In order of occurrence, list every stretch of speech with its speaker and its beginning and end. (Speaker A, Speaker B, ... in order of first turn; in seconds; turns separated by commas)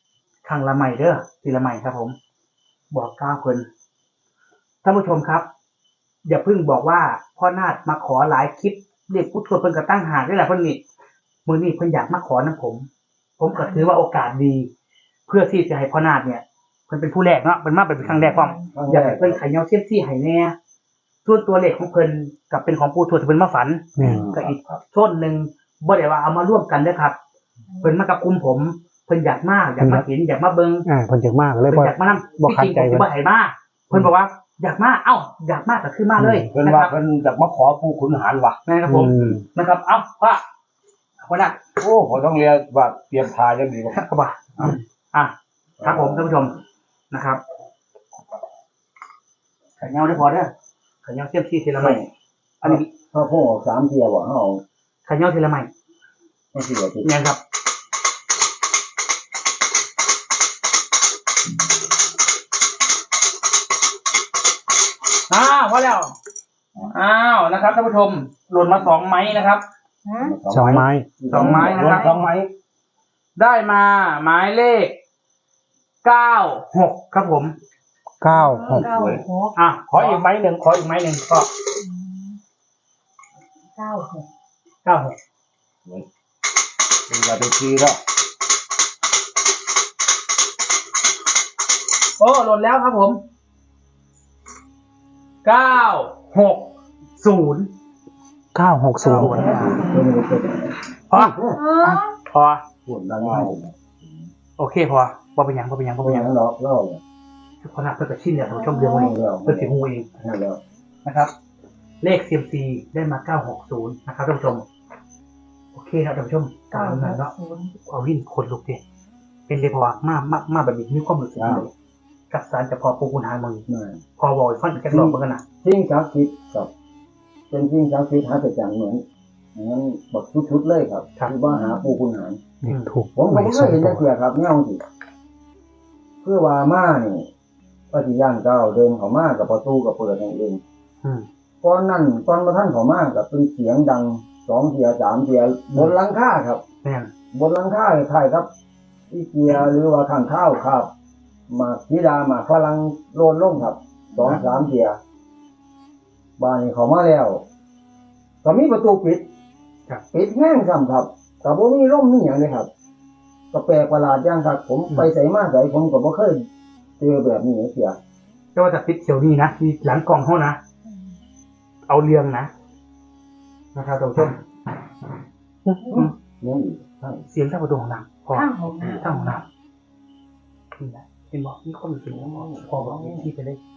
Speaker A: 0.4-2.1, Speaker A: 2.9-3.7, Speaker A: 4.8-5.5, Speaker A: 6.2-10.8, Speaker A: 11.4-12.9, Speaker A: 13.4-14.7, Speaker B: 13.5-13.8, Speaker A: 15.3-20.5, Speaker B: 18.2-18.7, Speaker C: 18.7-19.4, Speaker A: 21.2-27.2, Speaker D: 24.0-24.3, Speaker C: 24.0-24.3, Speaker E: 24.0-24.8, Speaker B: 27.7-28.0, Speaker A: 27.8-30.9, Speaker D: 29.8-30.1, Speaker D: 30.9-33.1, Speaker A: 31.7-36.9, Speaker D: 36.2-36.5, Speaker E: 36.5-38.6, Speaker A: 38.7-40.4, Speaker D: 38.9-39.4, Speaker A: 41.2-41.6, Speaker E: 41.8-44.0, Speaker A: 43.9-46.6, Speaker C: 45.8-46.5, Speaker A: 47.1-47.4, Speaker A: 49.8-50.5, Speaker A: 51.0-52.0, Speaker C: 51.8-52.1, Speaker A: 52.6-52.9, Speaker C: 52.6-54.6, Speaker A: 55.0-55.7, Speaker C: 56.5-57.1, Speaker A: 57.0-57.4, Speaker A: 65.3-66.1, Speaker A: 66.8-69.6, Speaker B: 70.0-70.3, Speaker C: 70.2-72.1, Speaker D: 70.5-71.1, Speaker A: 70.7-72.2, Speaker E: 71.3-72.5, Speaker B: 71.8-72.1, Speaker A: 73.4-75.0, Speaker A: 76.0-77.5, Speaker D: 78.2-78.9, Speaker B: 78.3-79.5, Speaker E: 78.7-79.2, Speaker A: 79.5-81.5, Speaker E: 79.9-80.2, Speaker B: 81.8-82.4, Speaker B: 83.8-84.2, Speaker A: 84.8-85.2, Speaker E: 87.1-88.0, Speaker A: 92.2-93.2, Speaker A: 95.4-97.7, Speaker D: 98.5-99.7, Speaker A: 99.1-99.8, Speaker C: 99.1-101.6, Speaker B: 99.2-100.0, Speaker A: 101.1-102.6, Speaker B: 101.5-102.1, Speaker E: 102.8-104.1, Speaker C: 103.1-103.5, Speaker A: 104.6-106.3, Speaker C: 106.0-107.0, Speaker A: 107.6-110.0, Speaker B: 108.4-109.1, Speaker C: 108.8-110.6, Speaker A: 111.0-111.3, Speaker A: 112.0-114.7, Speaker A: 115.7-117.3, Speaker B: 116.7-117.8, Speaker A: 117.9-118.8, Speaker A: 119.5-121.7, Speaker C: 121.4-121.6, Speaker A: 122.3-123.7, Speaker C: 123.7-124.0, Speaker A: 124.2-125.4, Speaker C: 124.8-126.7, Speaker C: 127.5-129.0, Speaker C: 129.5-132.4, Speaker B: 131.5-132.0, Speaker D: 132.6-134.1, Speaker C: 133.1-134.8, Speaker C: 136.2-137.3, Speaker C: 137.9-140.6, Speaker C: 141.6-146.6, Speaker A: 146.8-147.1, Speaker C: 147.3-148.5, Speaker C: 149.1-150.9, Speaker C: 151.5-155.0, Speaker C: 156.4-157.4, Speaker C: 158.4-159.2, Speaker C: 160.1-162.7, Speaker C: 163.5-166.4, Speaker C: 167.0-168.0, Speaker A: 168.5-170.6, Speaker A: 171.9-172.5, Speaker A: 173.7-174.4, Speaker C: 175.8-177.2, Speaker A: 177.3-179.4, Speaker B: 178.3-179.4, Speaker A: 180.8-183.6, Speaker C: 182.1-183.3